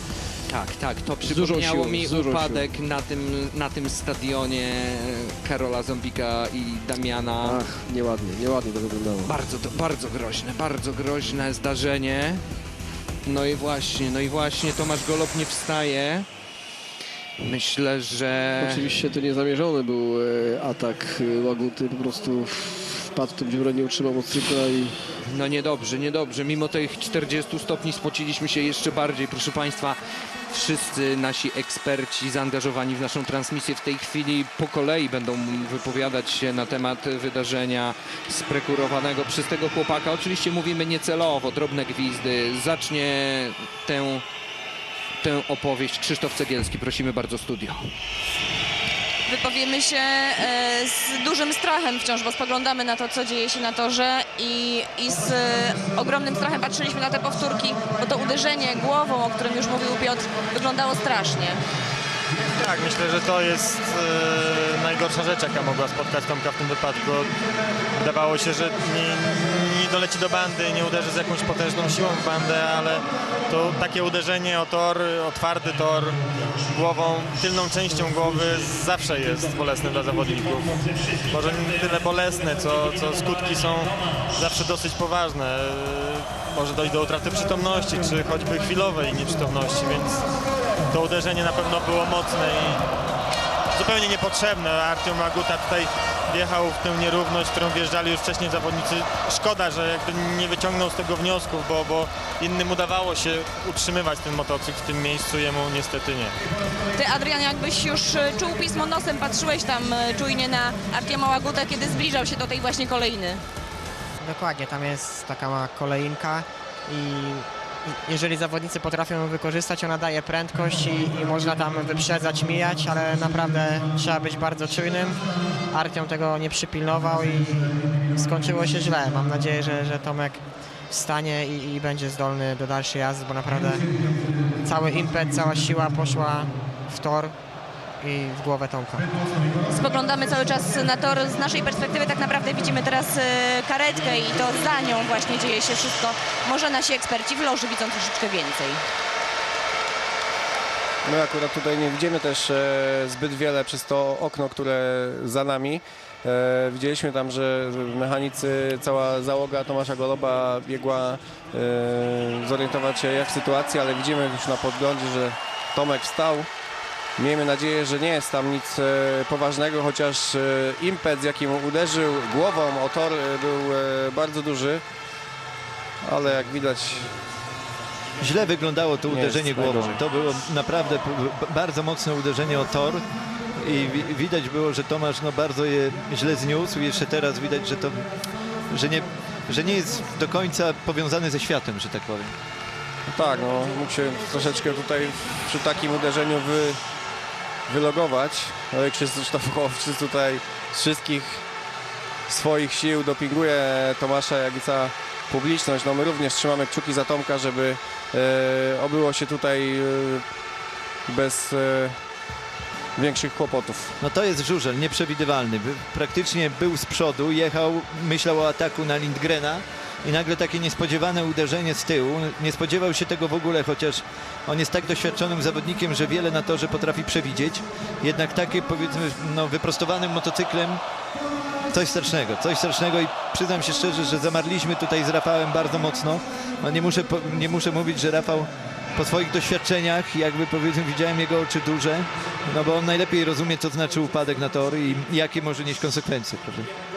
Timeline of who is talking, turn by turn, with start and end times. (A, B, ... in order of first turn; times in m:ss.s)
0:00.5-0:07.6 A
0:01.2-0:02.6 B
0:07.4-0:09.3 B
0:09.2-0:12.4 A
0:13.2-0:16.2 A
0:17.4-0:18.8 A
0:18.6-0:25.0 B
0:25.2-0:30.0 A
0:30.5-0:44.2 A
0:45.2-0:47.8 A
0:49.2-1:01.6 C
1:02.6-1:07.3 D
1:08.0-1:16.2 D
1:16.7-1:20.7 D
1:21.3-1:30.2 D
1:30.9-1:32.8 D
1:33.7-1:46.3 D
1:46.9-1:53.4 C
1:54.2-2:05.2 E
2:05.7-2:13.8 E
2:14.6-2:17.3 E
2:18.0-2:19.1 E
2:19.7-2:28.8 C
2:31.0-2:46.5 F
2:47.2-2:54.8 F
2:56.0-2:57.1 F
2:58.2-3:03.0 G
2:59.1-3:00.0 F
3:03.6-3:08.0 G
3:08.7-3:12.3 G
3:13.1-3:16.8 F
3:17.7-3:21.4 F
3:22.3-3:30.2 F
3:31.1-3:32.0 F
3:33.0-3:33.9 F
3:34.0-3:50.8 G
3:51.7-4:06.7 G